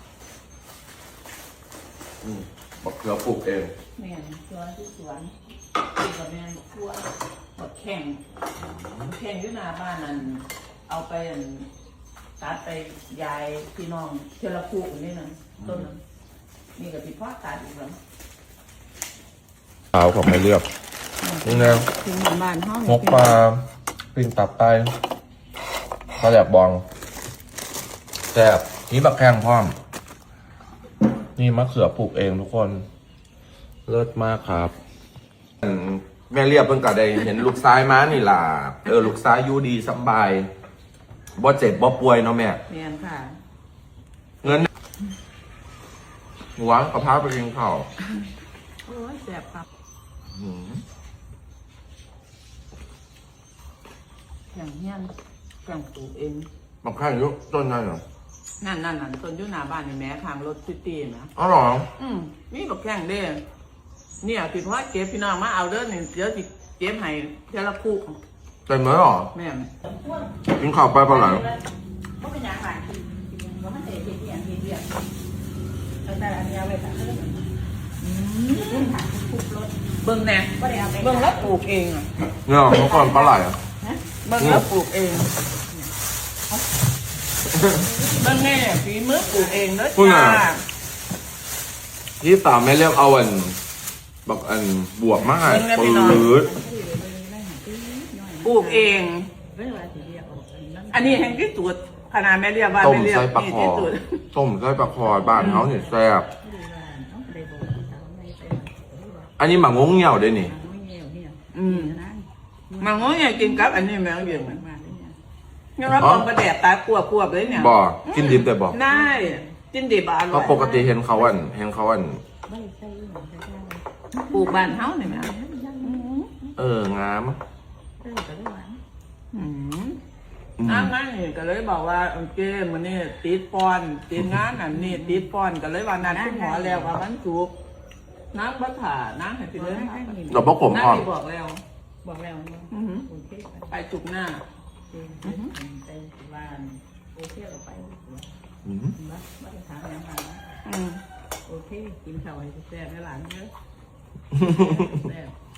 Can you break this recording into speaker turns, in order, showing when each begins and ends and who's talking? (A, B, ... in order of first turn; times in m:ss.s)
0:02.2-0:03.7 A
0:04.0-0:05.3 B
0:05.8-0:08.2 B
0:08.6-0:09.1 A
0:09.1-0:11.7 B
0:12.4-0:16.0 B
0:15.6-0:15.9 A
0:16.8-0:18.0 B
0:19.9-0:20.7 A
0:21.2-0:23.4 B
0:21.4-0:21.9 A
0:22.8-0:24.9 A
0:26.1-0:26.8 A
0:28.3-0:29.8 A
0:31.4-0:32.8 A
0:33.9-0:34.7 A
0:35.6-0:40.5 A
0:41.4-0:42.6 A
0:42.7-0:43.4 B
0:46.6-0:47.9 A
0:48.9-0:49.2 B
0:49.2-0:49.6 C
0:50.3-0:50.8 A
0:54.5-0:55.1 B
0:55.6-0:56.5 B
0:56.8-0:58.0 A
0:58.6-1:01.3 B
1:01.4-1:01.9 A
1:02.0-1:03.4 B
1:04.2-1:08.2 B
1:08.7-1:09.3 A
1:09.3-1:09.7 B
1:09.9-1:10.3 C
1:10.6-1:11.5 A
1:11.0-1:11.6 C
1:12.2-1:14.9 C
1:16.0-1:17.5 C
1:18.0-1:19.0 B
1:18.5-1:19.8 C
1:20.0-1:22.1 B
1:20.5-1:21.6 C
1:22.4-1:23.6 A
1:22.7-1:22.9 B
1:22.7-1:24.0 C
1:24.2-1:25.3 B
1:24.4-1:24.7 A
1:25.7-1:25.9 C
1:27.5-1:27.8 A
1:27.6-1:28.4 C
1:28.1-1:30.6 B
1:29.2-1:29.6 C
1:30.0-1:30.5 A
1:32.2-1:33.6 A
1:34.3-1:36.5 A
1:35.2-1:41.5 C
1:35.4-1:36.3 B
1:38.4-1:39.3 B
1:40.9-1:44.2 B
1:42.8-1:46.3 A
1:45.0-1:49.3 C
1:45.4-1:45.7 B
1:49.4-1:50.5 A
1:50.4-1:55.2 C
1:51.5-1:52.0 B
1:52.8-1:54.6 B
1:55.8-2:00.8 B
1:56.0-1:56.3 A
1:57.4-1:57.7 C
1:57.5-1:58.8 A
1:58.9-1:59.6 C
2:00.3-2:02.2 A
2:00.4-2:01.5 C
2:02.5-2:06.5 C
2:04.3-2:06.3 B
2:06.6-2:07.4 A
2:08.0-2:08.8 C
2:09.3-2:10.0 B
2:10.6-2:10.9 A
2:10.6-2:17.5 B
2:14.7-2:15.3 C
2:16.0-2:17.0 C
2:18.3-2:21.6 B
2:19.6-2:20.6 C
2:20.3-2:21.1 A
2:22.0-2:23.7 C
2:22.7-2:23.1 B
2:23.7-2:24.4 B
2:24.9-2:28.3 C
2:25.2-2:25.5 B
2:28.6-2:29.0 A
2:29.0-2:30.6 C
2:30.6-2:31.0 B
2:31.5-2:33.5 C
2:34.3-2:35.4 C
2:34.4-2:35.0 A